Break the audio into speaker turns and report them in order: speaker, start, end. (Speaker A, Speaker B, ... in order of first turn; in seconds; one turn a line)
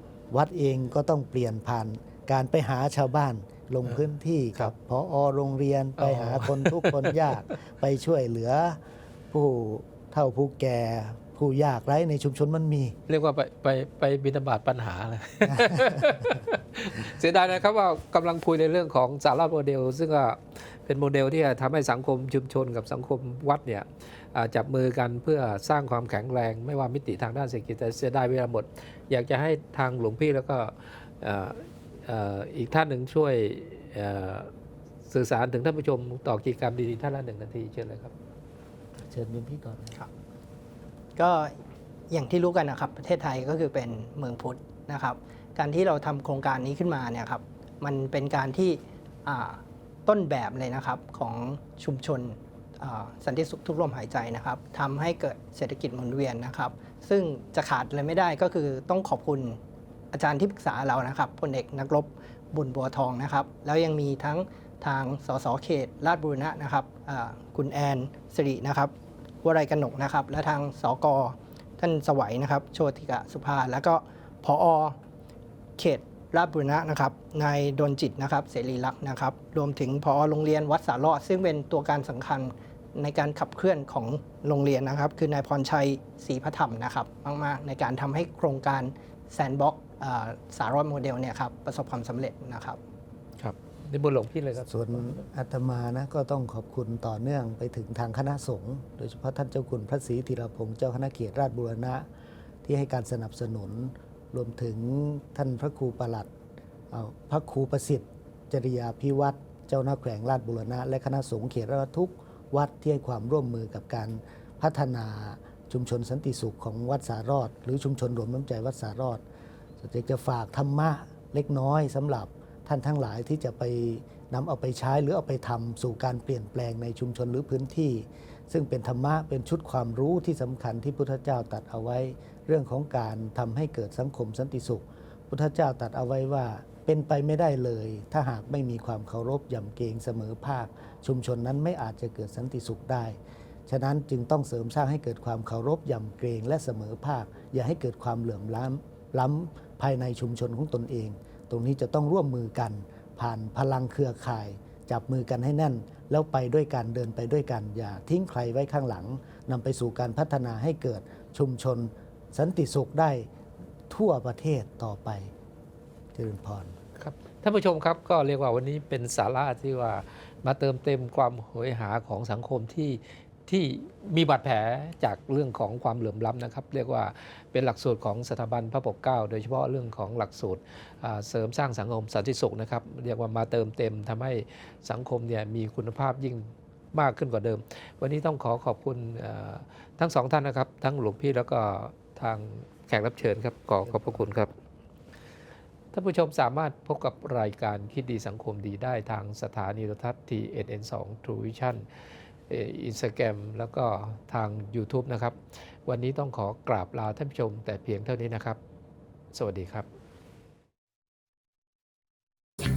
Speaker A: 0.3-8.8
Speaker B: 6.0-7.3
Speaker A: 9.3-13.0
Speaker B: 13.1-34.5
Speaker A: 15.5-16.1
Speaker B: 35.1-38.1
Speaker A: 39.0-40.0
Speaker C: 41.1-41.6
Speaker C: 42.1-59.6
Speaker C: 60.1-68.9
Speaker C: 69.4-75.0
Speaker C: 75.8-92.8
Speaker B: 93.4-95.2
Speaker A: 94.7-102.0
Speaker A: 102.6-106.3
Speaker A: 106.9-119.2
Speaker A: 119.8-163.3
Speaker A: 163.9-165.3
Speaker A: 166.1-166.8
Speaker B: 167.0-194.5
Speaker A: 193.9-194.2
Speaker B: 195.9-201.8
Speaker B: 202.5-208.6
Speaker B: 209.3-209.9